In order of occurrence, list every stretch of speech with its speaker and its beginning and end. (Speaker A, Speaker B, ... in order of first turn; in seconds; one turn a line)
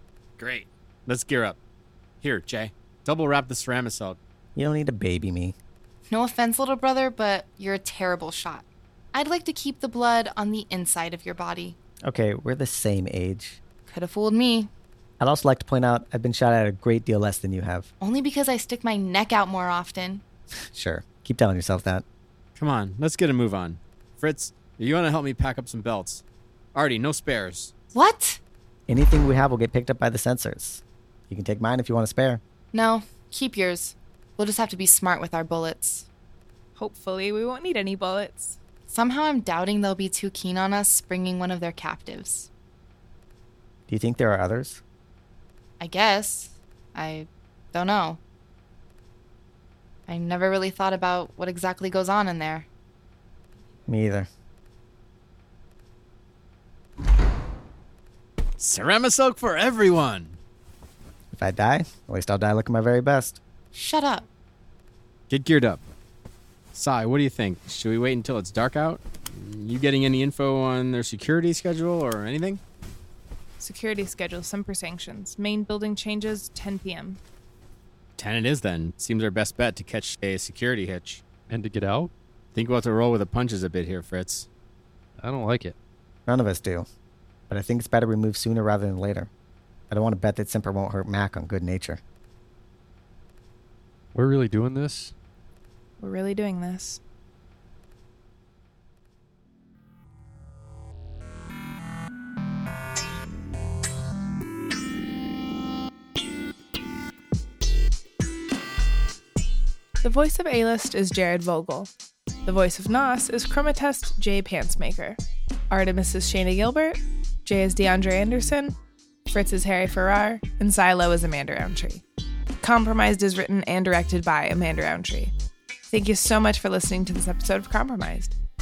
Speaker A: 0.4-1.6
Speaker A: 2.2-4.2
Speaker B: 4.5-5.6
Speaker C: 6.1-11.8
Speaker B: 12.1-13.6
Speaker C: 13.9-14.7
Speaker B: 15.2-17.9
Speaker C: 18.0-20.2
Speaker B: 20.7-22.0
Speaker A: 22.6-26.2
Speaker A: 26.8-27.7
Speaker C: 27.9-28.4
Speaker B: 28.9-32.4
Speaker C: 32.7-36.1
Speaker D: 36.8-38.6
Speaker C: 38.9-42.5
Speaker B: 43.9-44.8
Speaker C: 45.8-48.2
Speaker C: 50.1-52.7
Speaker B: 53.9-54.3
Speaker A: 58.6-60.4
Speaker B: 61.3-63.4
Speaker C: 63.7-64.3
Speaker A: 65.3-65.8
Speaker A: 66.7-72.6
Speaker D: 73.6-77.2
Speaker A: 78.2-81.2
Speaker E: 81.5-82.1
Speaker A: 82.5-84.5
Speaker E: 85.2-85.8
Speaker B: 86.3-86.9
Speaker B: 87.5-89.3
Speaker B: 89.9-92.0
Speaker E: 94.1-95.1
Speaker D: 96.0-97.0
Speaker D: 110.0-111.9
Speaker D: 112.5-115.2
Speaker D: 115.7-118.8
Speaker D: 119.3-122.0
Speaker D: 122.6-125.3
Speaker D: 125.9-128.3